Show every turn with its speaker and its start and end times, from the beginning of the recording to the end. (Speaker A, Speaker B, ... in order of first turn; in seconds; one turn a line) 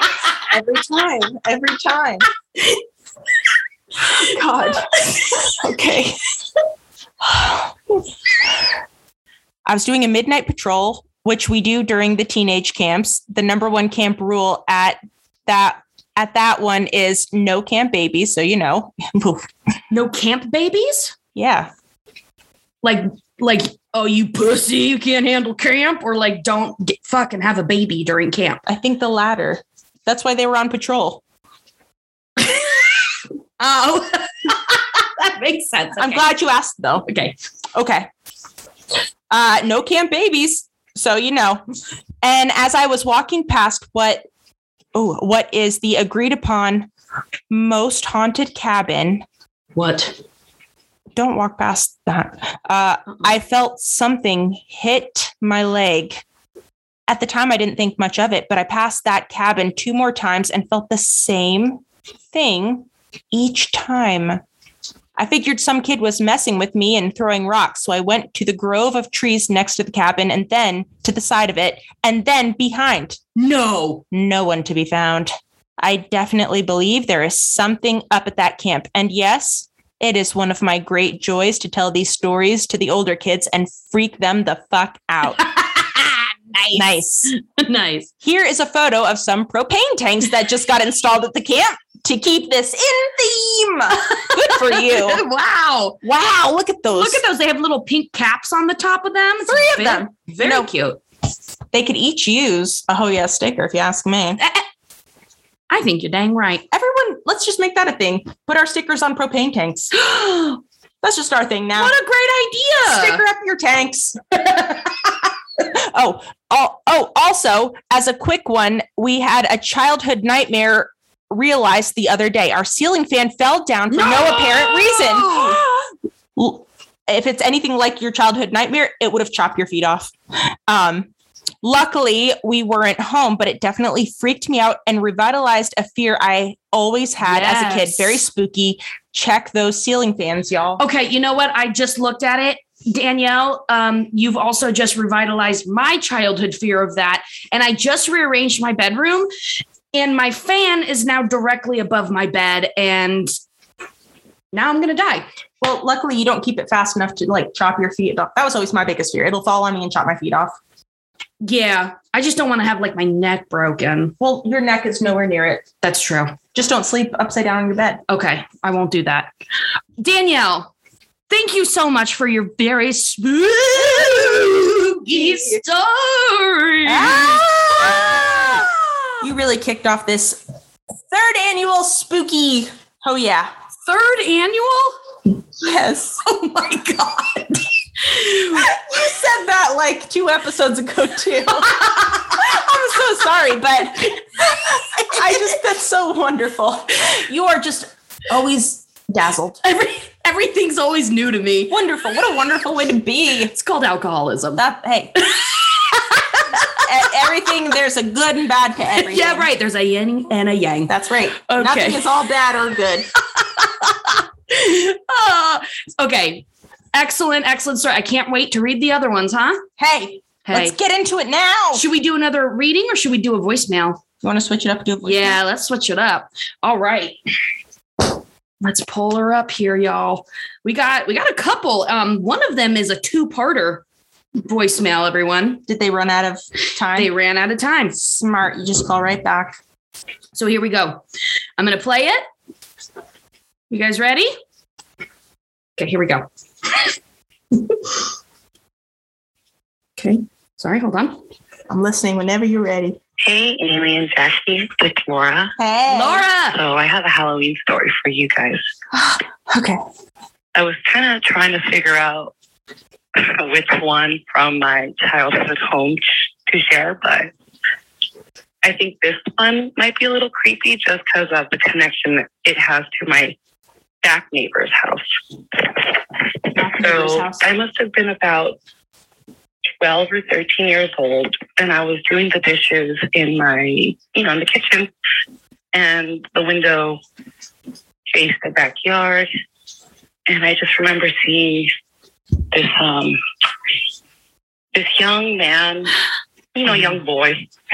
Speaker A: 0.4-2.2
Speaker A: 4.1-4.9
Speaker A: 5.5-6.2
Speaker A: 7.2-8.0
Speaker A: 9.7-19.5
Speaker B: 19.9-21.2
Speaker A: 21.4-21.7
Speaker B: 22.8-28.6
Speaker A: 28.7-31.2
Speaker B: 32.4-32.9
Speaker B: 33.6-36.3
Speaker A: 36.0-37.1
Speaker B: 37.1-37.4
Speaker A: 37.7-38.1
Speaker A: 39.3-41.6
Speaker A: 42.2-44.2
Speaker A: 44.9-46.9
Speaker A: 47.5-49.2
Speaker B: 49.8-50.1
Speaker A: 51.1-56.2
Speaker A: 57.1-61.8
Speaker A: 62.3-64.4
Speaker A: 65.2-73.2
Speaker B: 73.3-74.0
Speaker A: 74.1-85.4
Speaker B: 85.4-88.1
Speaker A: 86.8-87.3
Speaker A: 88.2-95.2
Speaker B: 93.9-96.0
Speaker A: 96.0-97.2
Speaker B: 96.9-101.0
Speaker A: 99.5-100.7
Speaker A: 101.7-104.4
Speaker B: 104.4-104.7
Speaker B: 105.7-106.7
Speaker A: 106.7-109.9
Speaker B: 109.9-110.6
Speaker A: 111.0-112.0
Speaker B: 111.8-113.2
Speaker A: 112.8-114.6
Speaker A: 115.6-125.6
Speaker B: 123.9-125.9
Speaker A: 126.4-130.1
Speaker A: 130.7-131.1
Speaker A: 131.6-140.8
Speaker B: 137.2-138.2
Speaker B: 140.8-149.3
Speaker B: 149.9-153.3
Speaker B: 154.5-155.3
Speaker A: 155.6-160.6
Speaker B: 161.4-164.2
Speaker A: 164.2-165.7
Speaker B: 165.8-166.4
Speaker A: 166.5-168.0
Speaker B: 168.1-169.3
Speaker B: 170.0-170.7
Speaker B: 171.3-179.2
Speaker A: 173.8-174.4
Speaker A: 175.1-175.6
Speaker A: 176.9-178.7
Speaker A: 179.2-180.4
Speaker A: 181.1-183.5
Speaker B: 183.8-185.0
Speaker A: 185.6-186.2
Speaker B: 186.2-188.7
Speaker A: 188.5-199.6
Speaker B: 191.6-192.6
Speaker B: 195.0-195.5
Speaker B: 199.6-201.7
Speaker A: 201.7-203.5
Speaker B: 203.5-204.6
Speaker A: 204.6-205.2
Speaker B: 205.2-206.8
Speaker A: 206.8-209.5
Speaker B: 209.0-212.0
Speaker A: 210.9-213.1
Speaker B: 213.3-219.6
Speaker A: 219.8-221.8
Speaker B: 220.4-220.8
Speaker B: 221.7-224.0
Speaker A: 224.2-225.4
Speaker B: 225.0-227.2
Speaker B: 228.6-233.8
Speaker B: 234.4-235.6
Speaker A: 235.7-237.1
Speaker B: 236.9-238.0
Speaker A: 238.0-239.6
Speaker B: 240.3-241.0
Speaker B: 241.6-242.2
Speaker B: 243.7-244.3
Speaker B: 245.8-246.3
Speaker B: 250.0-251.2
Speaker A: 251.7-253.0
Speaker C: 253.2-255.6
Speaker A: 255.6-256.2
Speaker B: 255.9-256.6
Speaker C: 256.5-258.6
Speaker A: 258.9-259.8
Speaker C: 260.6-262.3
Speaker C: 263.1-267.3
Speaker C: 268.6-273.3
Speaker C: 274.0-278.6
Speaker A: 276.5-277.6
Speaker C: 279.8-284.9
Speaker C: 285.7-287.0
Speaker C: 288.1-289.3
Speaker C: 290.3-291.7
Speaker C: 292.5-293.2
Speaker C: 294.7-295.9
Speaker C: 296.6-297.5